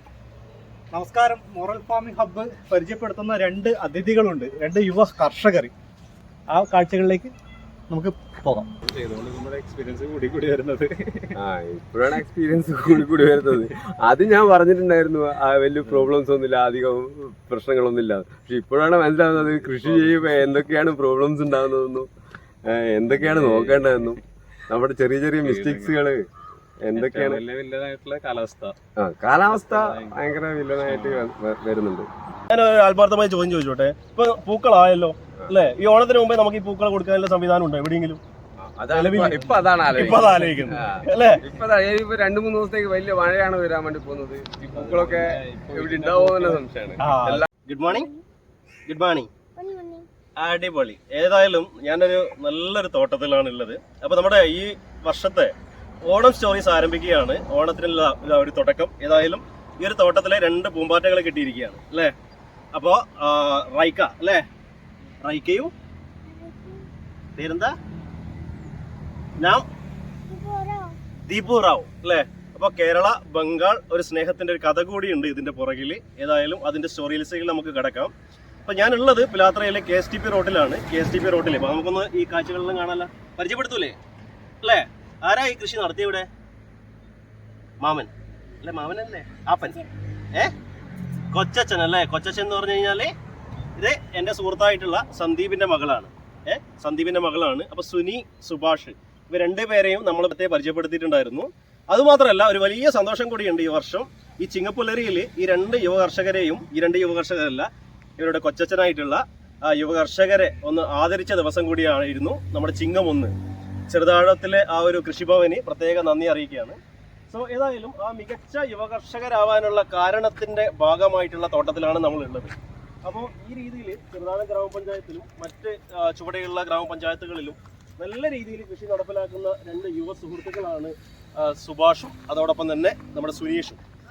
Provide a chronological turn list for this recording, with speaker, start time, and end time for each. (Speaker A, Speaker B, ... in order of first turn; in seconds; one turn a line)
Speaker A: 1.5-5.6
Speaker B: 1.7-2.2
Speaker B: 3.9-4.6
Speaker B: 6.6-7.2
Speaker A: 7.9-8.6
Speaker C: 8.8-11.4
Speaker D: 11.3-22.1
Speaker C: 15.8-16.1
Speaker C: 19.3-20.5
Speaker D: 22.7-26.2
Speaker C: 23.1-24.2
Speaker C: 25.4-26.0
Speaker D: 26.8-27.4
Speaker C: 26.9-28.8
Speaker D: 29.0-32.1
Speaker C: 29.4-31.3
Speaker B: 32.5-38.2
Speaker D: 38.6-47.5
Speaker B: 38.9-41.4
Speaker C: 39.2-41.1
Speaker C: 44.7-46.6
Speaker B: 47.0-48.1
Speaker B: 48.9-49.3
Speaker A: 49.6-50.1
Speaker B: 50.4-55.5
Speaker B: 56.0-62.1
Speaker B: 62.7-64.4
Speaker B: 65.2-65.7
Speaker A: 66.3-66.8
Speaker B: 67.4-67.7
Speaker B: 69.4-69.6
Speaker A: 70.3-71.0
Speaker B: 71.3-78.1
Speaker B: 78.7-84.0
Speaker B: 84.6-86.2
Speaker B: 87.8-88.1
Speaker B: 88.6-90.5
Speaker B: 91.3-93.1
Speaker B: 93.8-113.3
Speaker B: 113.9-116.8
Speaker B: 117.3-133.8